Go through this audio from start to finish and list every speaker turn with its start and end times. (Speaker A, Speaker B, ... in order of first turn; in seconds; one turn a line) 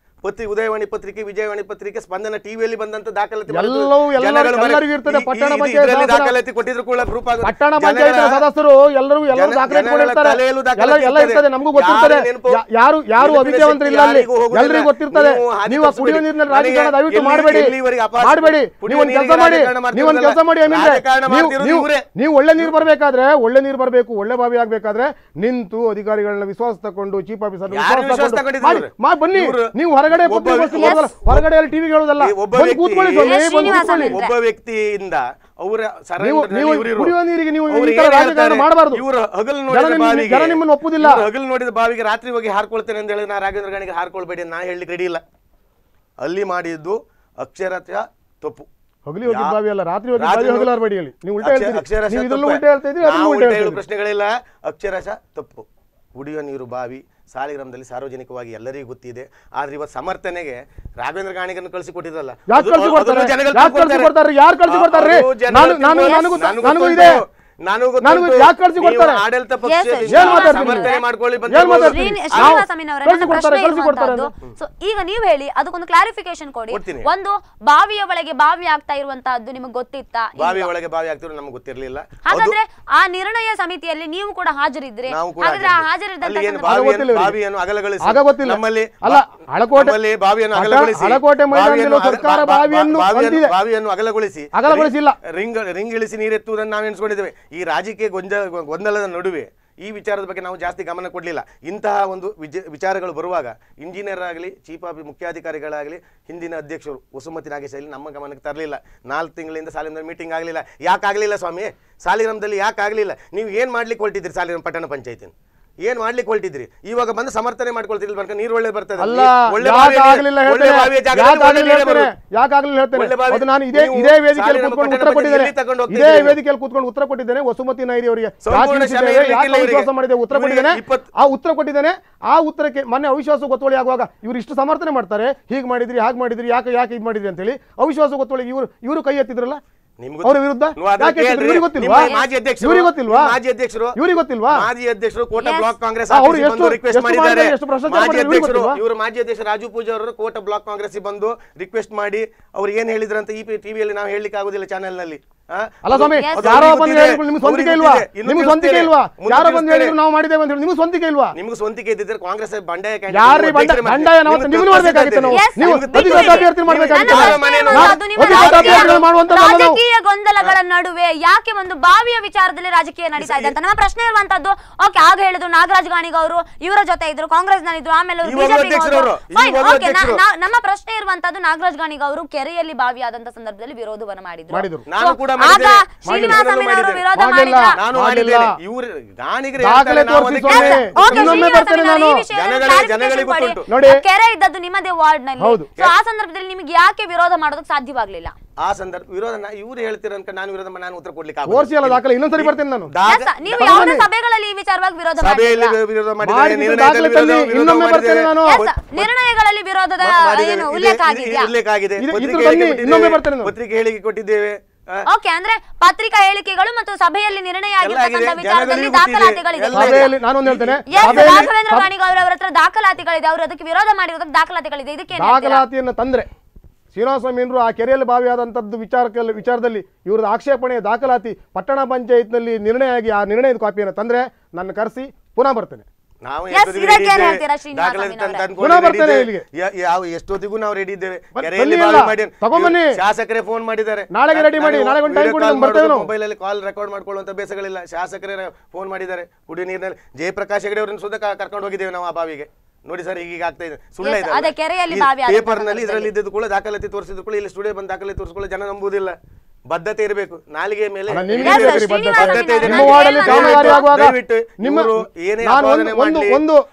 Speaker A: 0.2-8.4
Speaker B: 3.5-6.3
Speaker B: 7.4-34.2
Speaker A: 9.3-12.6
Speaker A: 13.2-22.1
Speaker A: 27.7-31.5
Speaker C: 30.8-31.1
Speaker A: 32.2-37.2
Speaker C: 33.2-34.3
Speaker B: 36.2-39.0
Speaker A: 37.7-45.2
Speaker B: 39.7-41.3
Speaker A: 46.2-48.7
Speaker B: 49.1-53.8
Speaker A: 49.2-49.6
Speaker A: 50.2-50.7
Speaker A: 51.4-64.1
Speaker B: 62.5-67.2
Speaker A: 64.7-72.6
Speaker C: 66.0-66.5
Speaker B: 68.0-69.2
Speaker C: 69.7-71.0
Speaker B: 70.1-71.0
Speaker B: 71.5-74.3
Speaker C: 71.8-80.7
Speaker A: 76.7-77.1
Speaker A: 80.4-82.6
Speaker C: 82.3-86.9
Speaker A: 85.1-122.1
Speaker B: 86.6-87.4
Speaker B: 88.0-90.0
Speaker B: 90.5-93.5
Speaker B: 94.5-95.2
Speaker B: 119.0-139.6
Speaker A: 122.9-126.4
Speaker A: 128.4-131.1
Speaker A: 140.0-144.0
Speaker B: 140.2-142.1
Speaker C: 142.0-142.3
Speaker B: 142.6-143.4
Speaker B: 143.9-144.7
Speaker A: 144.5-159.9
Speaker C: 145.4-145.7
Speaker B: 146.1-148.8
Speaker B: 155.8-161.3
Speaker C: 156.1-156.7
Speaker A: 161.3-169.0
Speaker B: 163.1-169.8
Speaker C: 165.3-187.8
Speaker A: 173.2-173.5
Speaker A: 178.2-180.2
Speaker B: 184.5-184.9
Speaker A: 184.9-187.0
Speaker B: 186.0-186.4
Speaker B: 187.1-188.6
Speaker A: 187.7-191.6
Speaker B: 189.6-192.2
Speaker C: 190.5-198.3
Speaker A: 192.3-193.6
Speaker B: 193.7-194.0
Speaker B: 195.4-195.7
Speaker A: 198.6-203.9
Speaker B: 201.5-202.9
Speaker C: 203.1-205.8
Speaker B: 203.5-204.1
Speaker A: 205.2-209.1
Speaker B: 206.2-208.6
Speaker C: 208.4-211.5
Speaker A: 210.0-215.1
Speaker B: 212.0-213.5
Speaker C: 215.1-220.1
Speaker A: 217.8-221.5
Speaker B: 219.7-221.9
Speaker C: 220.9-225.6
Speaker B: 225.2-226.3
Speaker B: 226.9-235.9
Speaker A: 236.2-259.1
Speaker C: 236.5-238.4
Speaker B: 238.6-239.4
Speaker B: 241.4-243.0
Speaker B: 244.1-246.1
Speaker C: 254.0-256.1
Speaker A: 259.7-266.4
Speaker B: 261.1-266.6
Speaker C: 261.4-263.9